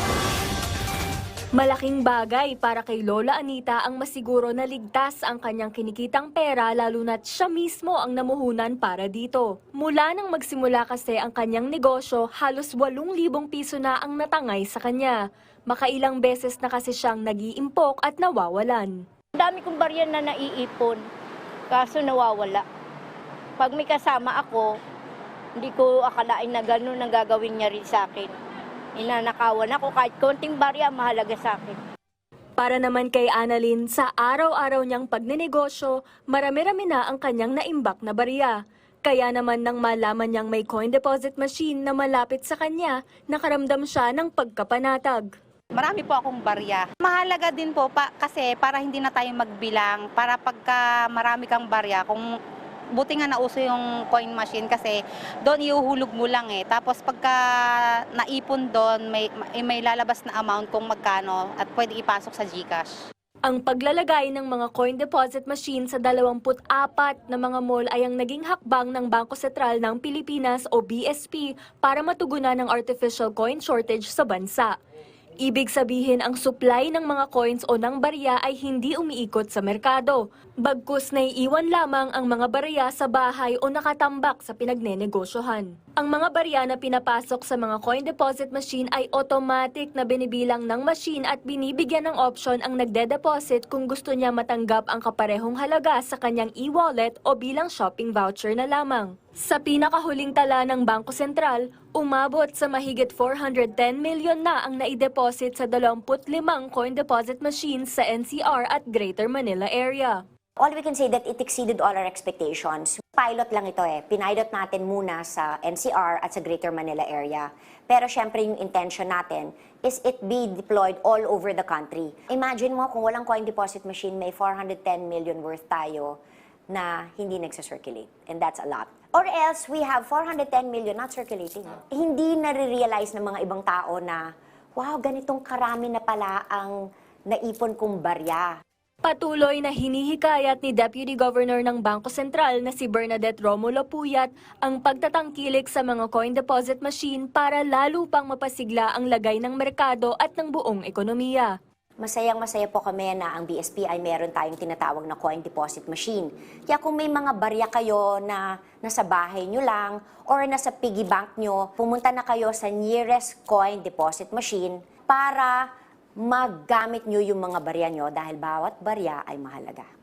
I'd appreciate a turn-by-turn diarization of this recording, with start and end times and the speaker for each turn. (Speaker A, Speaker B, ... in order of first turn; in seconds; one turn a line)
Speaker A: 1.6-19.0
Speaker B: 19.4-21.0
Speaker B: 21.7-22.6
Speaker B: 23.6-24.7
Speaker B: 25.6-28.3
Speaker B: 28.9-31.8
Speaker A: 32.6-45.3
Speaker C: 45.8-52.2
Speaker C: 53.0-57.4
Speaker C: 58.2-62.9
Speaker A: 63.5-74.7
Speaker A: 75.4-110.2
Speaker D: 110.6-136.8
Speaker D: 137.3-138.5
Speaker A: 139.0-151.5
Speaker D: 152.0-165.7
Speaker D: 166.2-169.9